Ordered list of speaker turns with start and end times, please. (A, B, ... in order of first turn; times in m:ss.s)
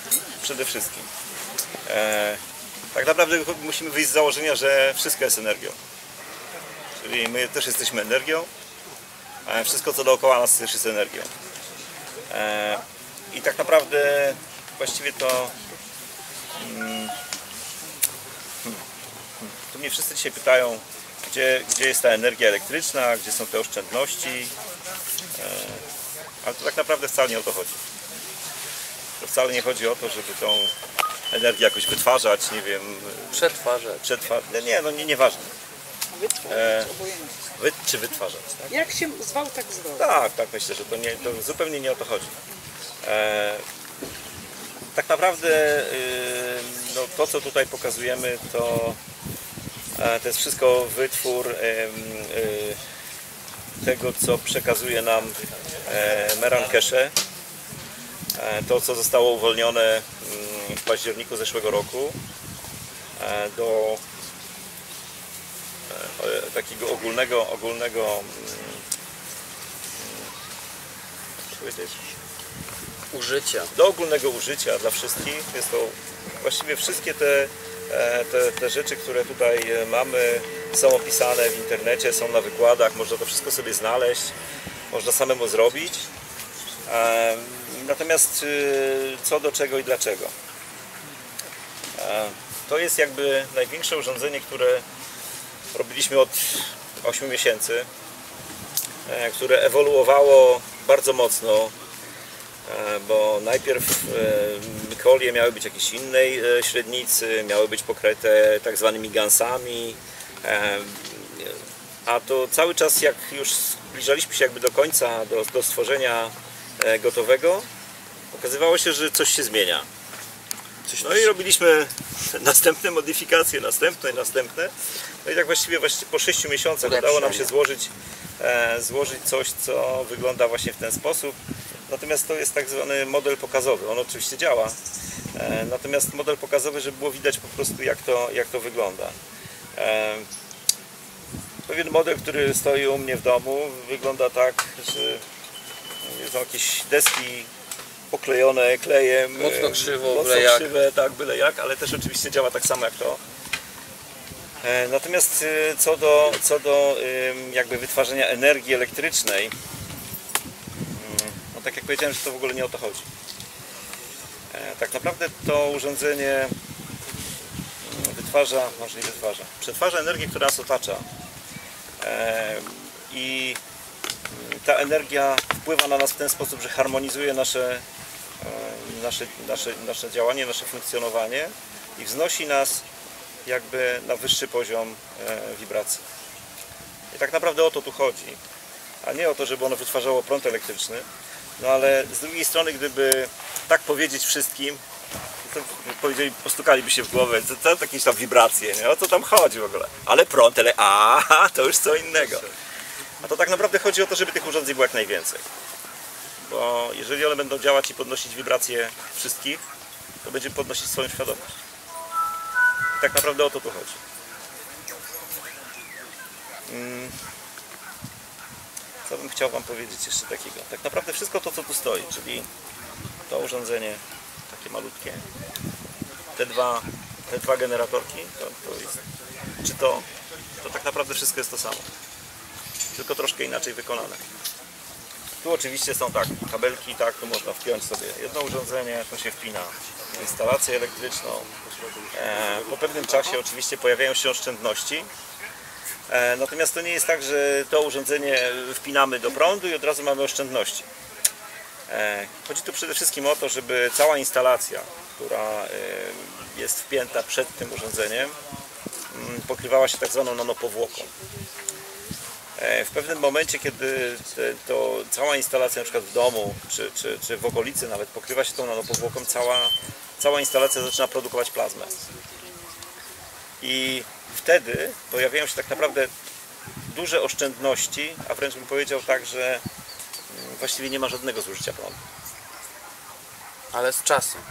0:00.4-0:01.1 A
0:01.9-0:02.4 A
0:02.9-0:05.8 A
0:07.0-0:08.5 A
0:09.5-0:11.3 A
0:12.3-0:15.6 A
0:16.6-0:17.1 A
0:19.4-0:24.5 A
0:25.4-0:25.8 A
0:26.4-0:27.8 A
0:29.2-0:30.7 A
0:31.3-0:33.5 A
0:33.3-0:34.0 B
0:34.0-0:35.5 A
0:36.1-0:37.3 C
0:36.5-0:36.9 A
0:37.6-0:38.7 A
0:38.7-0:40.1 C
0:40.0-0:42.3 A
0:43.0-0:43.6 A
0:44.9-0:49.0 A
0:50.0-0:52.8 A
0:53.8-0:57.1 A
0:58.4-1:02.2 A
1:03.2-1:04.0 A
1:05.9-1:08.8 A
1:10.0-1:10.3 A
1:11.5-1:12.0 A
1:13.1-1:13.7 B
1:13.7-1:24.3 A
1:24.9-1:26.1 A
1:26.9-1:30.3 A
1:32.0-1:34.8 A
1:35.7-1:37.9 A
1:39.1-1:41.7 A
1:42.7-1:57.7 A
1:58.3-1:59.9 A
2:00.9-2:01.3 B
2:01.0-2:04.7 A
2:05.2-2:11.4 A
2:06.8-2:07.5 B
2:11.9-2:14.8 A
2:15.4-2:19.2 A
2:19.8-2:20.3 A
2:21.7-2:25.2 A
2:26.0-2:27.5 A
2:28.1-2:33.2 A
2:29.4-2:30.7 B
2:34.6-2:39.5 A
2:40.9-2:43.1 A
2:44.5-2:46.5 A
2:47.8-2:51.0 A
2:52.0-2:53.6 A
2:54.3-2:57.8 A
2:58.4-3:02.8 A
3:03.4-3:06.0 A
3:07.1-3:08.4 A
3:09.0-3:11.0 A
3:11.6-3:14.8 A
3:15.4-3:22.5 A
3:23.2-3:25.4 A
3:26.4-3:29.6 A
3:30.2-3:31.5 A
3:33.0-3:34.0 A
3:36.7-3:37.2 A
3:39.1-3:42.5 A
3:43.3-3:45.2 A
3:46.4-3:49.0 A
3:49.6-3:50.0 A
3:50.6-3:51.9 A
3:53.0-3:54.2 A
3:55.4-4:01.5 A
4:02.1-4:05.1 A
4:06.1-4:10.9 A
4:11.9-4:18.4 A
4:19.1-4:21.1 A
4:22.6-4:31.9 A
4:33.6-4:36.1 A
4:36.9-4:39.6 A
4:40.3-4:42.0 A
4:43.7-4:44.4 B